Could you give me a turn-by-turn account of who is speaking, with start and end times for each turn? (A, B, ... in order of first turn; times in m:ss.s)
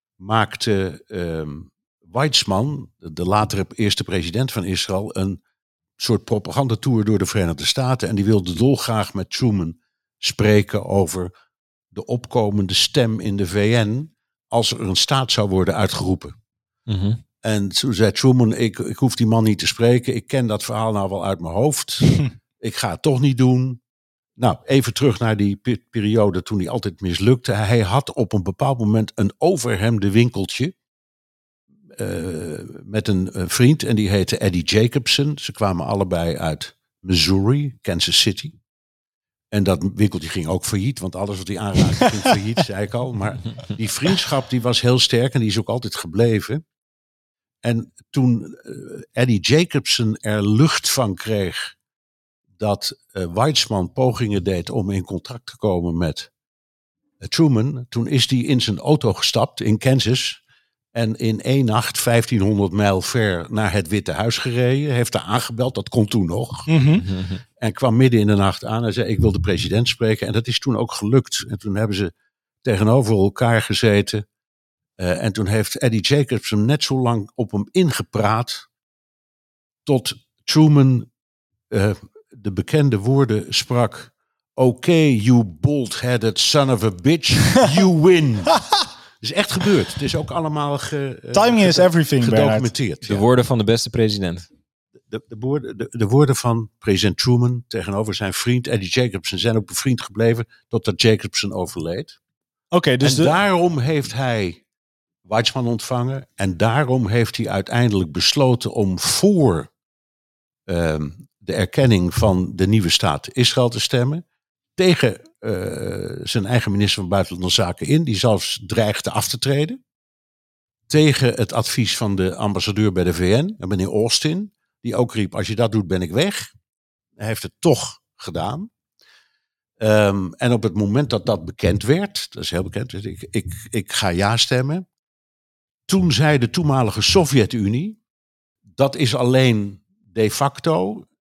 0:00.2-0:05.4 A
0:06.0-0:11.3 A
0:11.9-0:16.4 A
0:16.9-0:17.2 B
0:17.4-0:23.8 A
0:24.4-0:30.7 A
0:31.9-0:38.6 A
0:39.5-0:46.6 A
0:47.6-0:51.7 A
0:52.6-0:56.3 A
0:57.2-1:00.4 A
1:00.9-1:06.7 A
1:06.7-1:07.0 C
1:07.0-1:07.4 B
1:07.6-1:12.1 A
1:12.6-1:14.2 A
1:15.0-1:18.7 A
1:19.9-1:21.1 A
1:21.7-1:33.3 A
1:31.3-1:32.7 C
1:33.0-1:34.5 B
1:35.1-1:42.2 A
1:42.7-1:43.3 C
1:43.0-1:44.6 A
1:45.3-1:49.7 A
1:50.7-1:54.2 A
1:54.8-1:59.8 A
2:00.9-2:06.5 A
2:07.2-2:08.7 A
2:09.8-2:14.8 A
2:15.9-2:18.0 A
2:18.8-2:21.1 A